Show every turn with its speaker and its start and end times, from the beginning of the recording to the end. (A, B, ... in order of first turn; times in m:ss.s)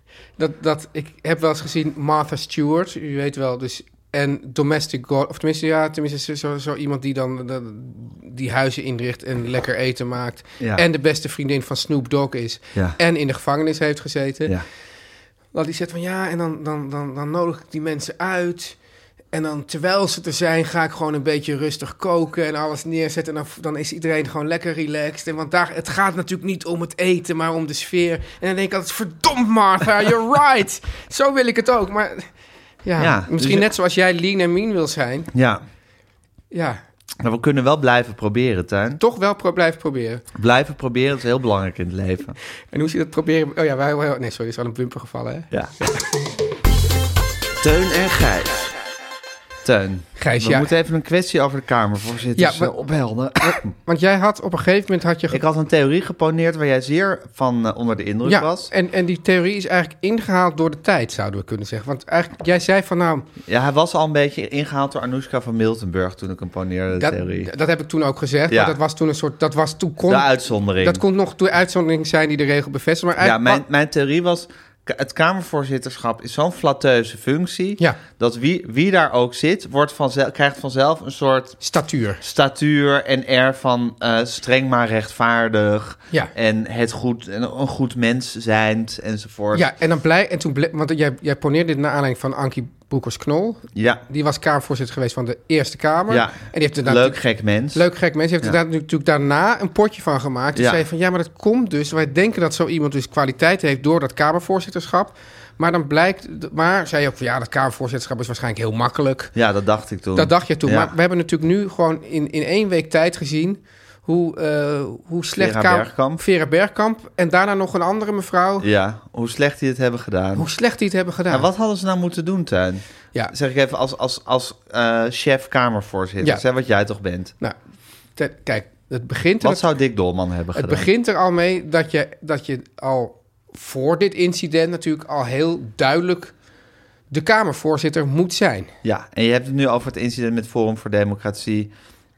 0:00.4-0:14.5 A
0:10.6-0:10.8 B
0:15.5-0:18.8 A
0:19.3-0:32.3 A
0:32.8-0:35.3 A
0:33.0-0:33.7 B
0:35.3-0:35.6 B
0:36.5-0:36.8 A
0:37.2-0:39.0 B
0:39.0-0:40.2 A
0:40.3-0:42.4 B
0:42.7-0:46.0 A
0:45.5-0:45.9 B
0:47.6-0:48.7 B
0:49.6-0:53.7 B
0:50.2-0:50.7 A
0:52.4-0:52.7 A
0:53.4-0:55.4 A
0:55.3-0:58.7 B
0:58.2-1:03.3 A
1:03.5-1:07.5 B
1:07.0-1:13.6 A
1:08.5-1:08.8 B
1:10.0-1:11.0 B
1:13.2-1:21.6 B
1:21.6-1:22.2 A
1:22.2-1:29.7 B
1:29.5-1:37.2 A
1:33.7-1:34.0 B
1:36.1-1:37.8 B
1:37.7-1:49.3 A
1:40.5-1:40.8 B
1:49.3-1:50.9 B
1:50.1-1:58.7 A
1:55.3-1:56.2 B
1:58.6-2:00.5 B
2:00.4-2:01.5 A
2:01.3-2:07.3 B
2:08.2-2:09.7 A
2:09.4-2:10.9 B
2:10.5-2:16.3 A
2:17.1-2:18.7 A
2:18.8-2:21.7 B